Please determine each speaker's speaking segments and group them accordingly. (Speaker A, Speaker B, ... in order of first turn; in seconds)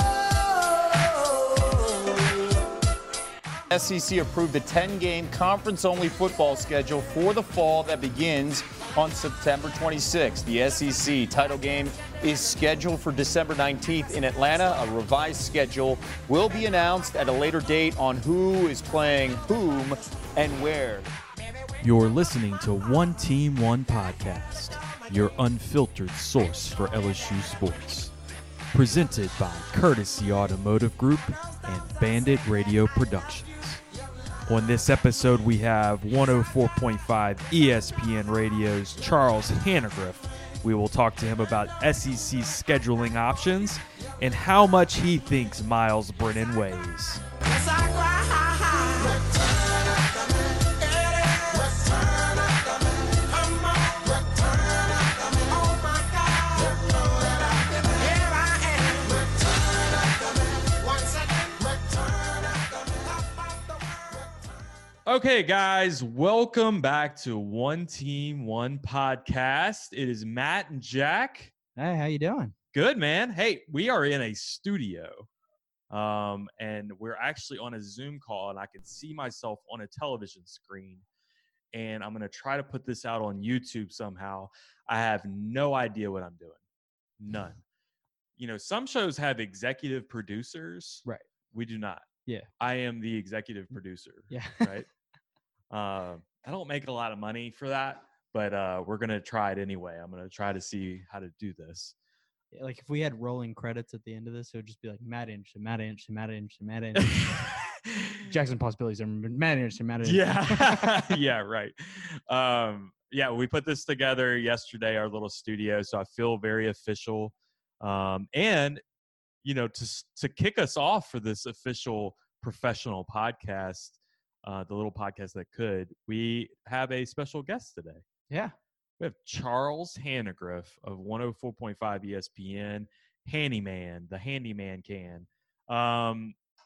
Speaker A: 3.7-21.1, 48.7-49.0
Speaker B: 21.8-28.1, 28.7-33.8, 34.5-47.2, 65.1-71.5, 72.7-75.3, 75.9-81.0, 81.7-86.6, 87.2-87.6, 88.4-92.1, 92.6-94.9, 95.7-102.0, 107.3-108.2, 110.0-118.8, 119.4-128.0, 129.0-136.4
Speaker C: 71.8-72.5, 94.3-94.8, 102.5-107.5, 108.2-111.2, 128.3-128.6